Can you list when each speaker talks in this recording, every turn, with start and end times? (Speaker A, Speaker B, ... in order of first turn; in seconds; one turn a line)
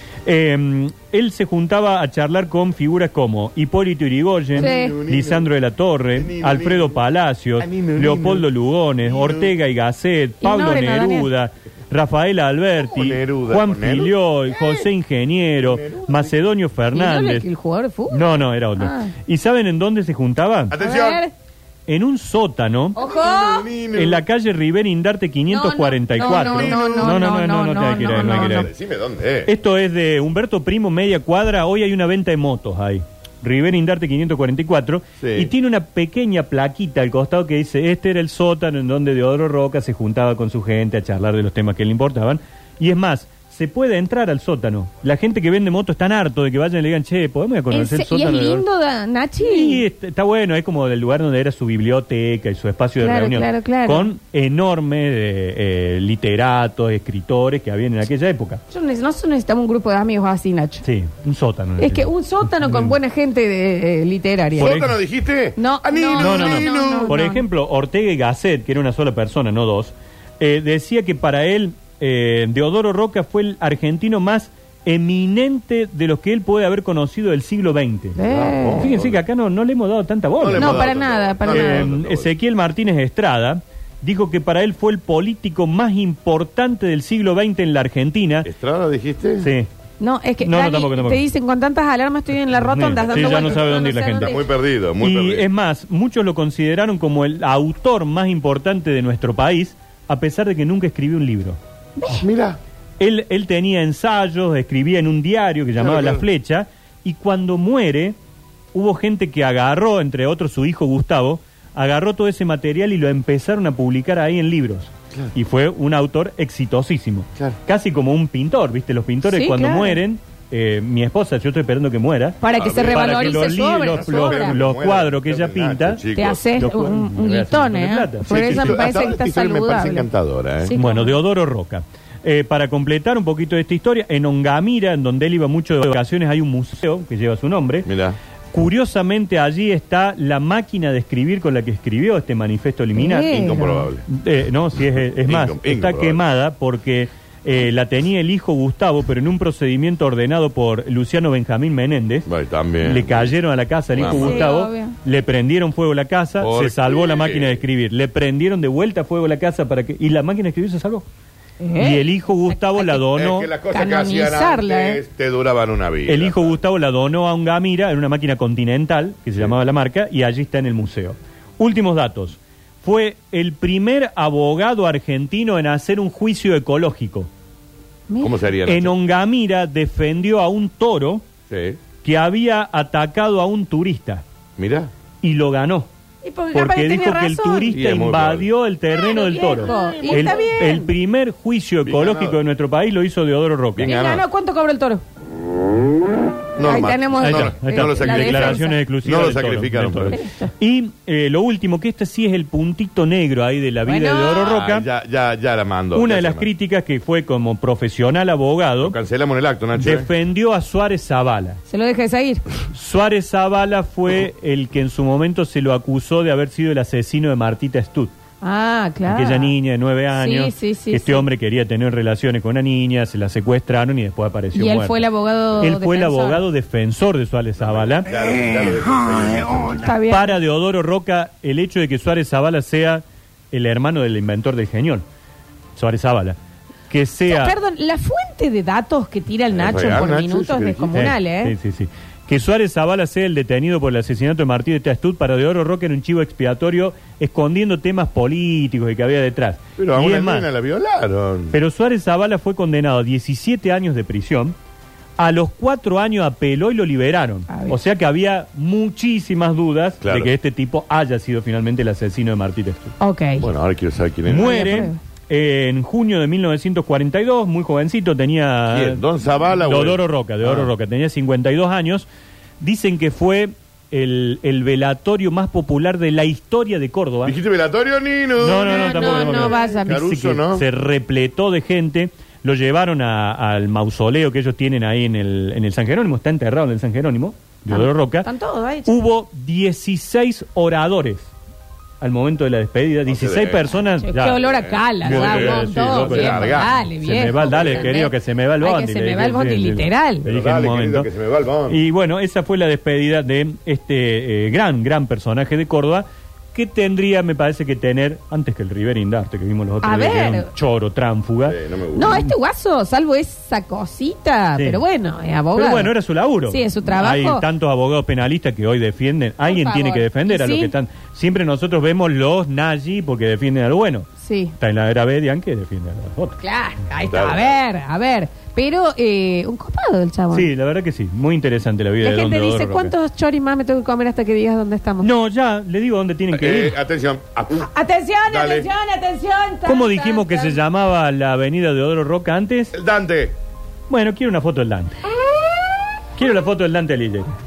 Speaker A: 0.2-17.4
Speaker B: 4.5-5.5
Speaker C: 4.6-5.0
Speaker B: 6.1-7.0
Speaker B: 7.6-9.5
Speaker C: 10.4-11.3
Speaker B: 12.9-14.9
Speaker B: 15.6-16.3
Speaker C: 16.9-18.2
Speaker A: 18.1-20.8
Speaker C: 18.8-19.1
Speaker B: 20.7-21.2
Speaker C: 20.8-21.3
Speaker A: 21.9-23.0
Speaker C: 22.9-23.7
Speaker B: 23.0-24.2
Speaker A: 23.9-28.7
Speaker C: 25.5-28.7
Speaker B: 26.2-27.2
Speaker B: 28.1-29.5
Speaker A: 29.4-48.6
Speaker B: 35.2-35.5
Speaker C: 47.7-49.8
Speaker A: 49.4-58.6
Speaker C: 53.0-54.1
Speaker C: 58.7-60.8
Speaker A: 60.8-62.9
Speaker C: 61.8-64.8
Speaker B: 64.5-67.2
Speaker A: 64.6-64.9
Speaker C: 65.6-67.4
Speaker A: 66.2-78.2
Speaker C: 78.2-78.9
Speaker B: 78.2-79.2
Speaker A: 78.7-80.9
Speaker B: 80.4-82.3
Speaker C: 80.5-81.9
Speaker A: 81.5-88.5
Speaker B: 88.4-89.5
Speaker A: 89.4-89.7
Speaker C: 90.0-94.5
Speaker A: 90.4-91.2
Speaker A: 92.5-94.3
Speaker B: 93.0-95.5
Speaker A: 95.0-101.6
Speaker C: 102.0-102.2
Speaker B: 102.2-102.6
Speaker A: 103.0-108.2
Speaker B: 105.8-106.2
Speaker A: 108.7-128.9
Speaker C: 119.2-120.0
Speaker C: 122.4-124.5
Speaker B: 122.5-126.4
Speaker C: 126.1-130.1
Speaker B: 128.3-130.8
Speaker C: 130.6-131.2
Speaker A: 130.7-137.9
Speaker B: 137.8-138.2
Speaker A: 138.5-152.3
Speaker C: 142.9-143.9
Speaker B: 143.3-144.0
Speaker B: 144.8-146.2
Speaker B: 152.2-153.3
Speaker A: 152.8-161.1
Speaker B: 153.9-154.5
Speaker C: 154.0-154.9
Speaker B: 156.4-157.6
Speaker C: 161.6-163.1
Speaker A: 161.8-163.5
Speaker B: 163.1-166.6
Speaker C: 163.7-165.0
Speaker A: 166.1-177.3
Speaker C: 178.1-178.3
Speaker B: 178.2-178.9
Speaker A: 178.7-181.2
Speaker B: 181.5-181.8
Speaker A: 182.0-184.2
Speaker B: 184.6-184.9
Speaker A: 185.2-185.9
Speaker C: 186.2-187.8
Speaker A: 186.5-193.9
Speaker B: 187.7-188.5
Speaker C: 188.9-190.9
Speaker B: 189.7-190.4
Speaker B: 191.8-192.4
Speaker B: 193.7-194.2
Speaker C: 193.8-195.0
Speaker B: 196.6-200.2
Speaker C: 196.6-198.8
Speaker A: 197.2-204.9
Speaker C: 200.1-200.5
Speaker C: 203.8-204.5
Speaker B: 204.4-206.5
Speaker A: 205.9-208.9
Speaker B: 208.8-210.1
Speaker A: 209.8-211.6
Speaker C: 211.7-212.4
Speaker A: 212.7-218.1
Speaker C: 218.4-219.5
Speaker A: 219.1-225.0
Speaker C: 220.1-221.2
Speaker C: 224.5-226.4
Speaker A: 225.6-228.1
Speaker B: 227.6-229.9
Speaker C: 229.7-230.3
Speaker A: 230.1-235.0
Speaker A: 235.8-236.4
Speaker A: 236.9-237.6
Speaker C: 237.3-241.5
Speaker B: 239.5-241.0
Speaker A: 240.9-250.5
Speaker B: 249.8-251.5
Speaker A: 251.5-254.6
Speaker A: 255.2-262.9
Speaker C: 257.5-257.8
Speaker B: 260.0-260.3
Speaker C: 263.0-263.5
Speaker B: 263.4-264.8
Speaker A: 264.3-269.0
Speaker C: 264.4-265.0
Speaker B: 268.7-270.7
Speaker A: 269.6-272.1
Speaker A: 272.6-277.4
Speaker B: 277.2-280.6
Speaker A: 278.4-288.3
Speaker C: 278.6-280.1
Speaker C: 287.7-288.9
Speaker A: 288.9-291.3
Speaker A: 292.0-294.4
Speaker B: 293.1-293.7
Speaker C: 294.0-300.2
Speaker B: 294.3-296.8
Speaker A: 295.0-301.1
Speaker B: 297.4-298.0
Speaker B: 300.2-301.8
Speaker A: 301.7-312.2
Speaker C: 309.8-310.5
Speaker B: 311.4-312.3
Speaker C: 311.9-315.9
Speaker A: 315.5-326.4
Speaker C: 316.5-317.4
Speaker C: 319.4-320.7
Speaker C: 324.2-324.5
Speaker C: 326.4-330.5
Speaker B: 327.0-327.6
Speaker A: 330.3-332.9
Speaker C: 332.0-335.1
Speaker A: 335.0-336.8
Speaker B: 336.3-337.7
Speaker C: 337.6-340.6
Speaker B: 338.3-338.7
Speaker A: 339.6-342.7
Speaker B: 342.7-343.4
Speaker A: 343.9-345.0
Speaker A: 346.1-347.4